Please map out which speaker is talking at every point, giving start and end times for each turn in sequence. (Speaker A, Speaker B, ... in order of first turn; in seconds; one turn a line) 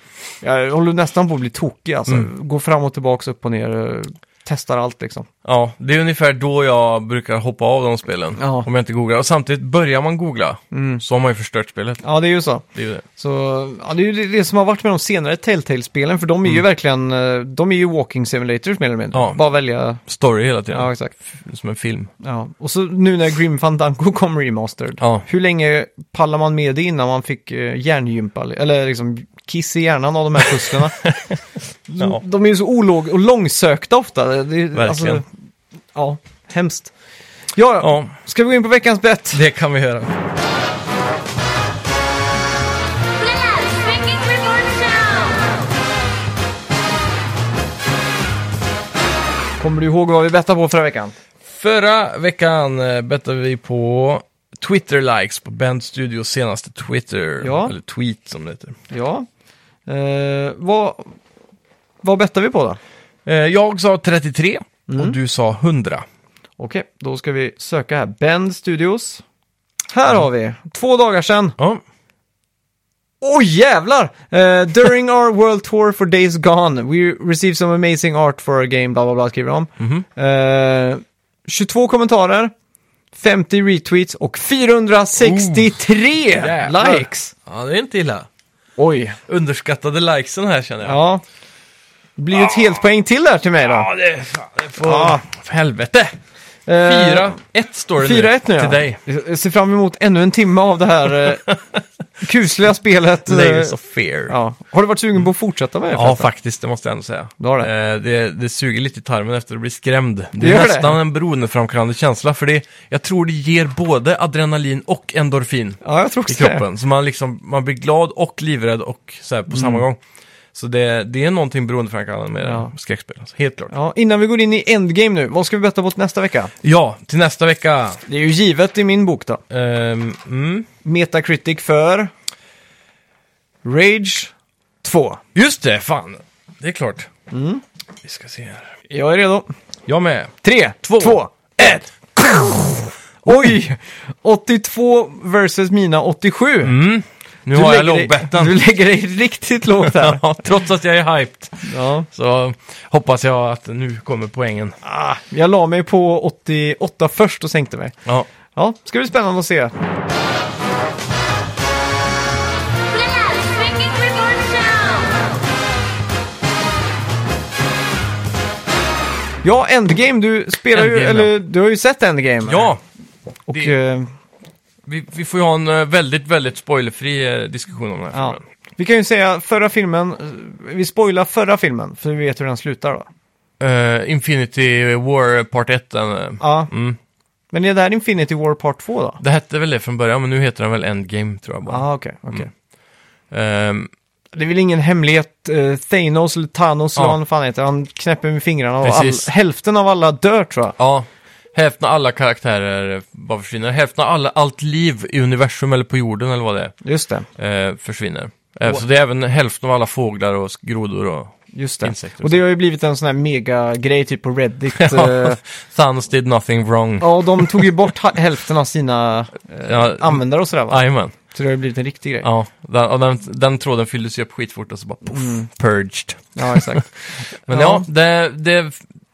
Speaker A: 0.4-5.3
Speaker B: 5.4-12.0
Speaker A: 8.4-8.7
Speaker A: 10.7-11.0
Speaker A: 12.0-20.0
Speaker B: 12.7-13.0
Speaker B: 19.1-19.4
Speaker B: 20.0-22.1
Speaker A: 20.7-21.1
Speaker A: 22.2-31.0
Speaker B: 25.0-25.2
Speaker B: 31.0-31.4
Speaker A: 31.9-35.2
Speaker B: 34.7-35.2
Speaker A: 35.9-36.9
Speaker A: 37.5-39.4
Speaker B: 37.8-38.1
Speaker B: 39.3-40.1
Speaker C: 43.1-45.6
Speaker A: 49.6-51.1
Speaker B: 51.5-58.7
Speaker A: 57.4-57.7
Speaker A: 58.9-59.2
Speaker A: 59.9-61.1
Speaker A: 62.0-62.8
Speaker B: 63.2-66.0
Speaker A: 64.9-65.2
Speaker A: 66.6-69.2
Speaker A: 69.9-71.6
Speaker A: 73.2-82.5
Speaker B: 79.8-80.0
Speaker A: 83.1-87.3
Speaker B: 85.2-85.7
Speaker B: 86.3-88.3
Speaker A: 88.8-89.2
Speaker B: 89.3-91.0
Speaker A: 90.8-91.2
Speaker A: 92.2-93.9
Speaker B: 92.3-92.7
Speaker B: 93.6-96.2
Speaker A: 94.8-95.2
Speaker A: 96.7-97.4
Speaker B: 96.8-99.0
Speaker A: 98.0-101.5
Speaker A: 102.2-103.8
Speaker B: 103.2-104.3
Speaker A: 104.3-106.3
Speaker B: 105.9-120.0
Speaker A: 107.4-107.7
Speaker A: 110.4-111.0
Speaker A: 115.8-116.6
Speaker A: 119.5-119.8
Speaker B: 120.5-123.7
Speaker A: 122.4-122.7
Speaker A: 123.7-126.5
Speaker B: 126.6-128.0
Speaker A: 128.1-129.4
Speaker B: 129.5-130.7
Speaker A: 130.8-132.1
Speaker A: 133.6-134.3
Speaker A: 134.8-135.2
Speaker B: 135.3-137.1
Speaker A: 137.3-137.6
Speaker B: 138.0-138.7
Speaker A: 138.9-139.5
Speaker B: 139.9-141.2
Speaker A: 140.4-146.8
Speaker B: 146.6-148.6
Speaker A: 147.5-150.4
Speaker B: 149.8-154.8
Speaker A: 151.6-152.1
Speaker A: 154.8-157.9
Speaker A: 158.6-159.7
Speaker C: 162.8-165.3
Speaker A: 169.4-172.7
Speaker B: 170.7-171.3
Speaker B: 172.4-172.8
Speaker A: 173.5-174.1
Speaker B: 174.8-178.4
Speaker A: 178.1-183.1
Speaker B: 183.6-187.0
Speaker A: 186.4-186.7
Speaker A: 187.5-189.2
Speaker B: 189.2-192.4
Speaker A: 191.7-192.5
Speaker B: 193.3-193.9
Speaker A: 194.3-200.7
Speaker B: 198.8-199.3
Speaker B: 200.8-206.7
Speaker A: 206.8-207.3
Speaker B: 207.4-212.4
Speaker A: 211.5-215.4
Speaker B: 214.8-217.8
Speaker A: 217.0-222.3
Speaker B: 219.7-221.1
Speaker B: 222.2-228.8
Speaker A: 225.1-225.5
Speaker A: 226.3-226.9
Speaker A: 227.5-227.8